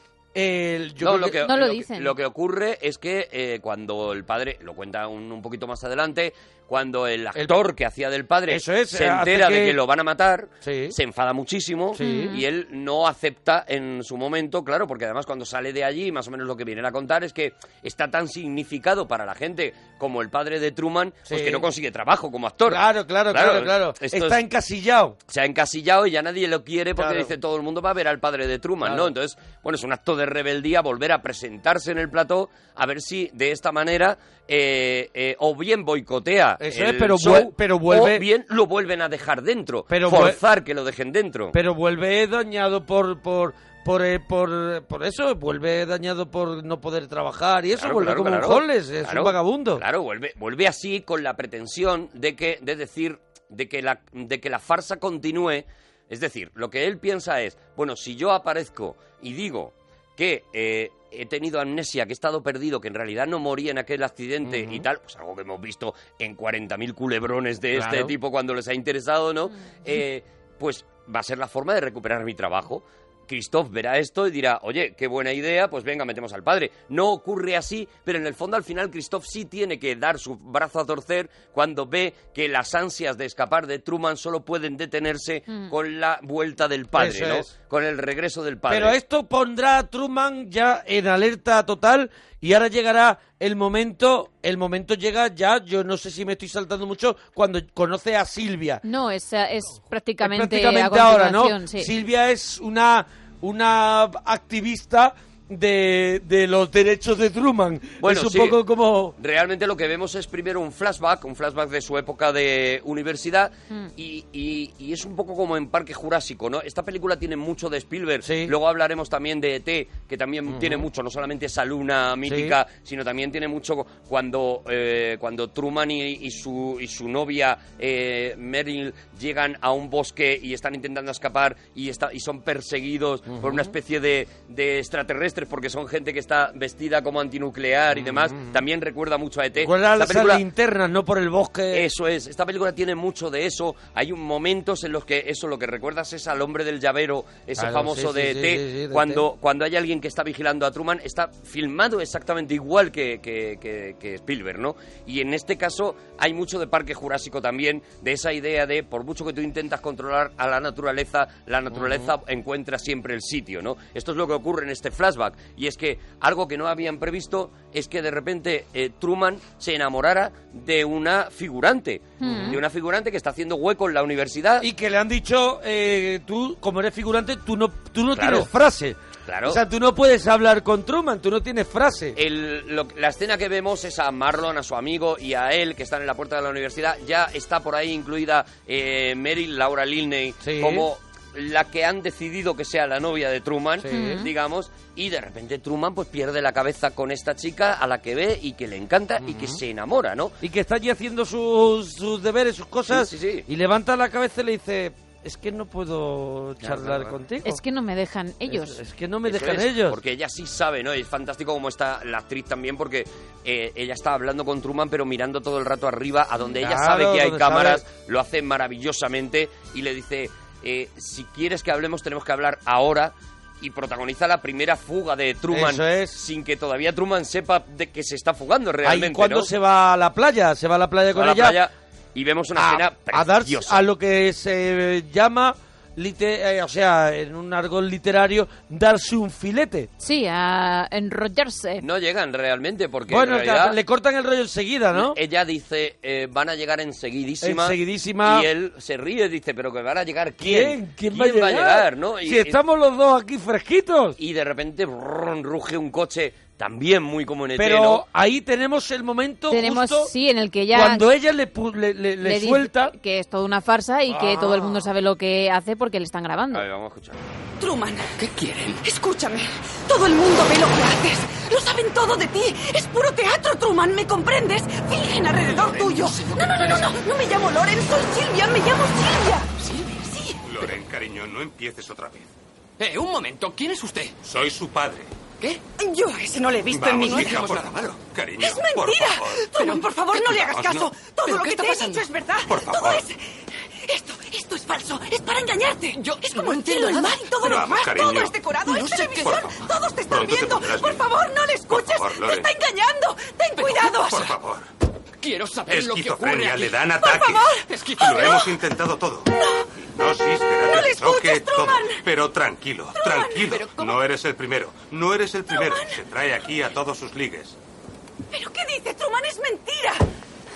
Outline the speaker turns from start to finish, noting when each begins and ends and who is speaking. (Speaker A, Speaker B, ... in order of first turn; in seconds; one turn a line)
Speaker A: 0.3-1.4
Speaker B: 1.0-24.4
Speaker C: 1.4-2.1
Speaker A: 8.5-9.8
Speaker A: 10.6-11.0
Speaker A: 12.0-12.4
Speaker C: 12.0-12.4
Speaker A: 21.3-21.6
Speaker A: 22.7-25.2
Speaker B: 25.3-41.6
Speaker A: 27.0-27.3
Speaker A: 28.8-29.1
Speaker A: 36.6-38.2
Speaker A: 39.9-40.4
Speaker A: 41.5-49.8
Speaker B: 47.8-89.0
Speaker A: 64.4-64.9
Speaker A: 67.7-68.2
Speaker A: 87.0-87.5
Speaker A: 88.7-98.8
Speaker C: 98.8-101.9
Speaker A: 100.2-109.2
Speaker B: 108.0-108.6
Speaker B: 109.2-140.4
Speaker A: 118.2-118.5
Speaker A: 120.5-120.9
Speaker A: 122.2-122.6
Speaker A: 133.3-133.7
Speaker A: 138.2-138.6
Speaker A: 139.6-141.9
Speaker B: 141.7-174.7
Speaker A: 147.6-149.2
Speaker A: 161.7-162.1
Speaker C: 172.2-172.6
Speaker A: 172.2-172.6
Speaker A: 174.6-182.2
Speaker B: 178.2-178.5
Speaker B: 179.3-179.6
Speaker B: 182.2-200.4
Speaker A: 190.4-190.9
Speaker A: 193.8-194.2
Speaker C: 193.9-194.3
Speaker A: 199.2-199.6
Speaker A: 200.4-207.6
Speaker B: 202.9-203.5
Speaker B: 206.6-207.1
Speaker C: 207.4-208.8
Speaker A: 208.5-210.0
Speaker B: 209.2-229.5
Speaker A: 216.6-217.8
Speaker A: 225.5-226.2
Speaker A: 228.8-231.6
Speaker B: 231.1-233.8
Speaker A: 232.5-239.9
Speaker C: 240.0-241.8
Speaker B: 241.8-243.8
Speaker A: 243.1-245.2
Speaker B: 244.9-252.6
Speaker A: 247.4-248.5
Speaker A: 250.4-254.2
Speaker B: 254.2-258.0
Speaker A: 257.6-260.1
Speaker C: 259.5-261.0
Speaker A: 260.7-262.9
Speaker C: 262.2-266.7
Speaker A: 264.1-264.9
Speaker B: 266.5-267.2
Speaker D: 267.6-268.3
Speaker E: 268.2-268.8
Speaker D: 268.8-280.4
Speaker E: 275.5-276.9
Speaker E: 279.6-280.1
Speaker F: 280.4-282.3
Speaker E: 282.8-284.2
Speaker F: 284.2-285.1
Speaker E: 285.4-285.6
Speaker D: 285.8-287.6
Speaker E: 286.7-288.0
Speaker F: 286.7-289.7
Speaker D: 288.4-293.2
Speaker E: 289.5-292.1
Speaker F: 290.3-290.9
Speaker F: 292.4-293.1
Speaker D: 293.9-304.3
Speaker E: 296.0-297.3
Speaker F: 297.4-298.4
Speaker E: 298.6-299.5
Speaker F: 299.2-299.5
Speaker F: 300.1-301.1
Speaker F: 301.7-302.5
Speaker F: 303.9-304.7
Speaker E: 305.2-306.9
Speaker F: 305.7-309.3
Speaker D: 306.9-308.5
Speaker E: 307.7-308.3
Speaker D: 309.3-309.7
Speaker F: 309.9-317.6
Speaker D: 310.5-312.1
Speaker D: 312.9-314.0
Speaker D: 315.5-316.0
Speaker D: 318.3-320.1